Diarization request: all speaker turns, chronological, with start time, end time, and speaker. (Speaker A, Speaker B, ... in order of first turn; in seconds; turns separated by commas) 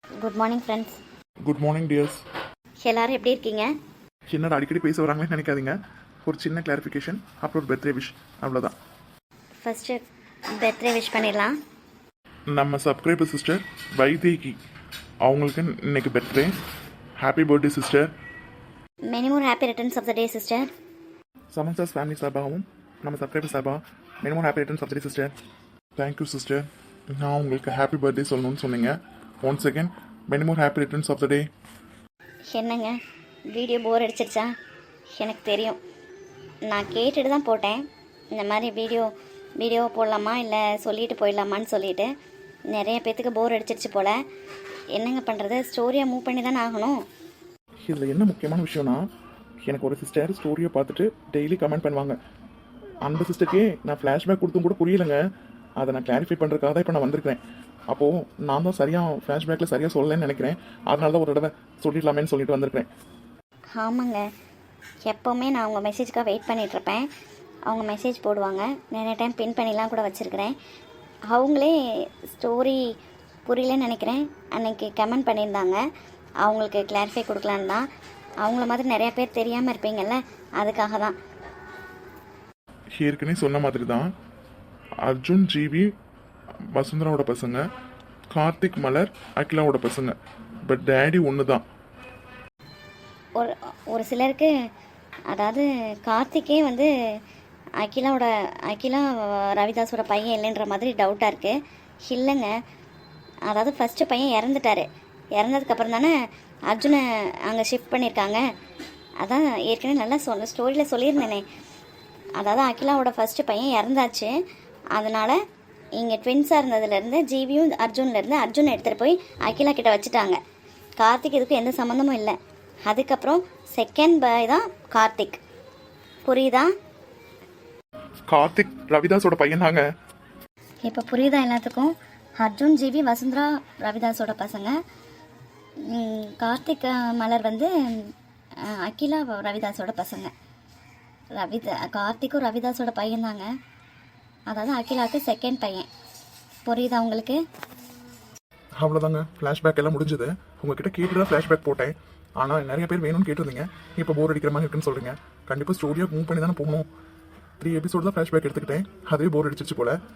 Speaker A: 0.2-1.0, Speaker B: 1.4-2.2, Speaker A: 2.9-3.7, Speaker B: 4.3-5.8, Speaker B: 6.3-8.7, Speaker A: 9.6-10.0, Speaker A: 10.6-11.6, Speaker B: 12.5-14.6, Speaker B: 15.2-16.5, Speaker B: 17.2-18.1, Speaker A: 19.1-20.7, Speaker B: 21.5-25.4, Speaker B: 26.0-31.5, Speaker A: 32.5-33.0, Speaker A: 33.5-34.5, Speaker A: 35.2-35.8, Speaker A: 36.7-37.8, Speaker A: 38.4-42.1, Speaker A: 42.7-44.2, Speaker A: 45.0-47.0, Speaker B: 47.9-49.0, Speaker B: 49.6-52.2, Speaker B: 53.0-55.2, Speaker B: 55.8-62.9, Speaker A: 63.8-64.2, Speaker A: 65.1-67.1, Speaker A: 67.7-70.6, Speaker A: 71.3-72.8, Speaker A: 73.5-75.9, Speaker A: 76.4-77.8, Speaker A: 78.4-81.2, Speaker B: 83.0-84.1, Speaker B: 85.0-85.9, Speaker B: 86.7-87.6, Speaker B: 88.3-90.2, Speaker B: 90.7-91.6, Speaker A: 93.4-94.5, Speaker A: 95.3-96.9, Speaker A: 97.8-102.6, Speaker A: 103.5-106.1, Speaker A: 106.7-108.4, Speaker A: 109.2-111.5, Speaker A: 112.4-114.3, Speaker A: 114.9-115.4, Speaker A: 116.0-120.4, Speaker A: 121.0-125.4, Speaker A: 126.2-126.7, Speaker B: 128.3-129.8, Speaker A: 130.9-134.8, Speaker A: 135.8-140.3, Speaker A: 141.3-143.5, Speaker A: 144.5-145.9, Speaker A: 146.7-147.4, Speaker B: 148.8-156.9, Speaker B: 157.6-160.0